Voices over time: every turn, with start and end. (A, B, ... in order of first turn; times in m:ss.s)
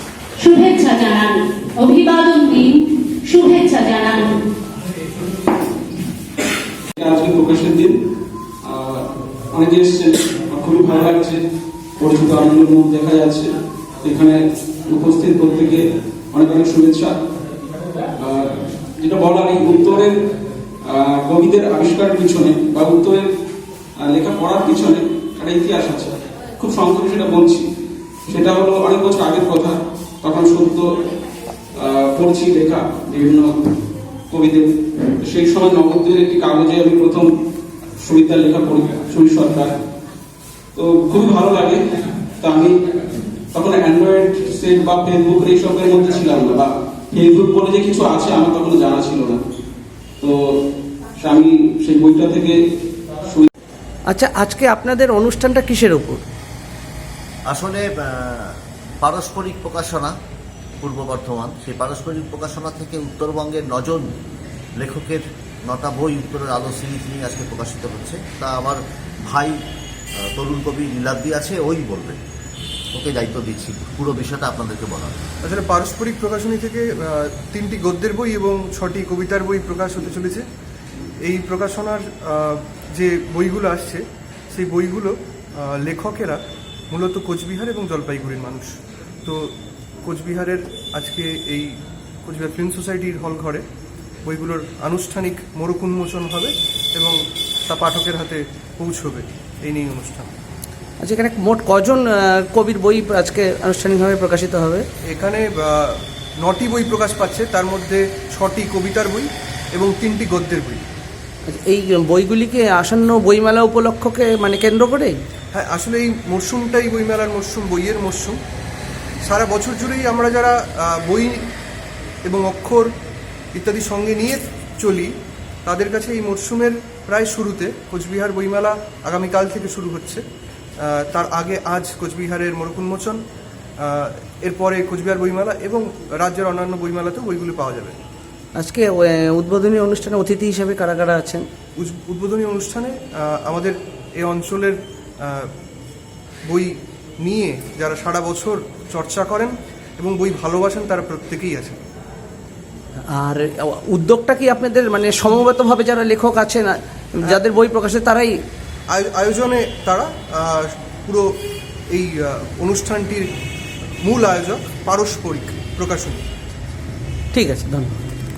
0:00.4-0:04.4 A
0:06.9-0:08.0 B
0:08.6-0:11.4 B
0:12.0-0:13.5 B
0:14.0-0:17.2 B
0:18.2-0:20.2 B
0:20.8-0:23.3 B
0:24.0-0:27.7 B
0:28.3-0:30.9 B
0:31.8-0:33.7 B
0:34.3-0:37.3 B
0:38.0-0:39.8 B
0:40.8-0:41.8 B
0:42.4-0:42.8 B
0:43.5-0:49.4 B
0:50.2-0:50.6 B
0:51.2-0:52.6 B
0:53.2-0:53.5 B
0:54.1-0:56.2 C
0:57.5-1:00.2 D
1:00.8-1:04.1 D
1:04.8-1:09.6 D
1:10.2-1:12.2 D
1:12.9-1:15.2 D
1:15.4-1:20.5 E
1:21.2-1:29.5 E
1:30.0-1:33.6 E
1:34.2-1:40.3 E
1:41.0-1:44.9 C
1:45.0-1:50.8 E
1:51.5-1:55.2 C
1:55.5-1:58.4 E
1:59.2-2:01.4 E
2:02.2-2:02.9 E
2:03.5-2:05.1 E
2:05.7-2:10.2 E
2:10.8-2:13.2 E
2:13.8-2:18.0 E
2:18.6-2:21.4 C
2:21.8-2:25.5 E
2:26.4-2:31.8 E
2:33.1-2:38.4 C
2:38.9-2:41.3 E
2:41.9-2:43.3 E
2:44.0-2:46.2 E
2:47.3-2:48.1 C